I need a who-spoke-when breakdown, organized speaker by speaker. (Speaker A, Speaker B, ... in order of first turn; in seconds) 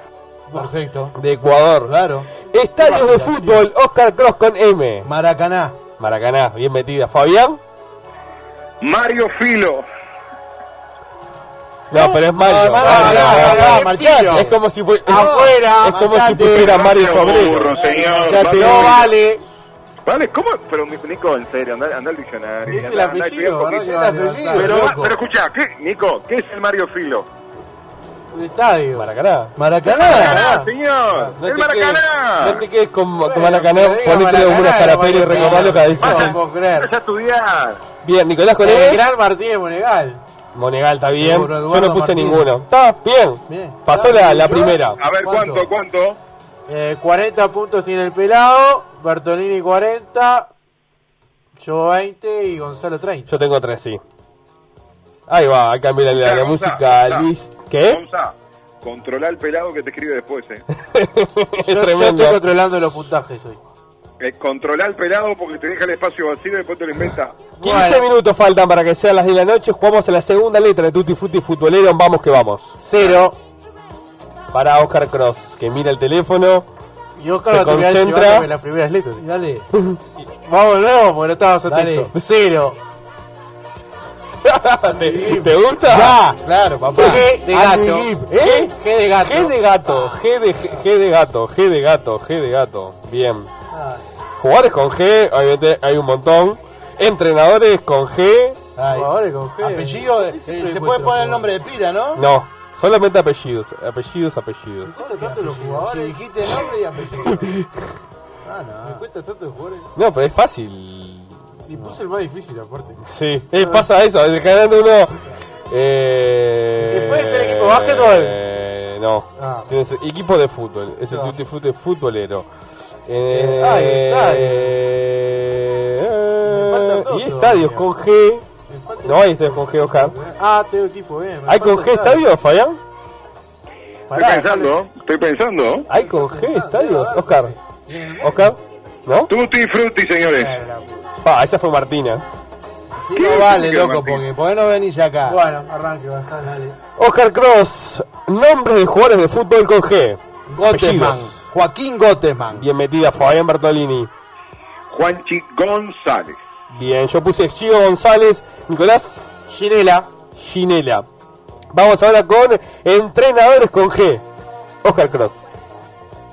Speaker A: 0.5-1.2, 1.8-2.3, 5.0-5.8, 12.4-14.5, 15.1-16.8, 17.7-19.1, 23.7-25.1, 29.6-30.5, 41.1-42.6, 43.5-43.8, 79.2-79.7, 81.7-82.1, 85.8-88.7, 89.9-90.2, 98.8-102.2, 105.0-107.5, 108.5-109.0, 128.7-130.4, 143.0-145.4, 146.4-146.8, 150.5-152.7
Speaker B: 1.2-2.0, 2.5-5.1, 6.0-7.6, 11.9-17.8, 28.9-29.5, 31.3-36.4, 38.0-39.0, 40.5-45.0, 53.3-54.0, 55.3-58.0, 61.0-62.4, 67.6-72.8, 74.5-76.7, 77.5-78.5, 84.4-86.2, 88.4-93.5, 94.4-98.6, 102.2-104.9, 107.2-107.9, 110.0-111.4, 113.0-122.5, 123.0-128.4, 129.0-130.2, 131.5-132.8, 135.9-137.5, 138.2-139.3, 141.2-142.2, 147.0-151.4, 152.5-154.1, 156.7-159.3, 160.4-161.1, 161.7-164.2, 164.8-165.4
Speaker C: 2.8-3.7, 11.9-14.5, 15.1-16.5, 18.0-19.4, 22.7-24.9, 28.3-29.1, 30.1-31.3, 33.2-36.9, 38.6-40.2, 43.9-45.6, 46.7-50.5, 51.5-53.3, 61.6-63.6, 67.6-68.0, 72.8-73.4, 77.2-79.2, 80.2-82.8, 84.8-85.5, 87.0-89.6, 98.9-101.5, 104.9-106.2, 108.8-109.9, 111.7-113.0, 113.6-113.8, 116.8-118.4, 119.4-119.7, 121.1-121.3, 123.3-124.8, 126.4-127.9, 128.7-129.4, 130.3-132.3, 134.1-134.7, 135.9-138.5, 140.4-141.0, 145.3-146.6, 159.5-160.1
Speaker D: 8.8-9.8, 16.5-19.1, 20.0-23.8, 24.5-27.3, 29.9-32.6, 35.3-37.8, 44.4-46.2, 56.1-57.3, 57.8-60.6, 64.2-67.4, 134.1-135.8, 139.3-140.5, 143.2-144.2, 154.9-156.4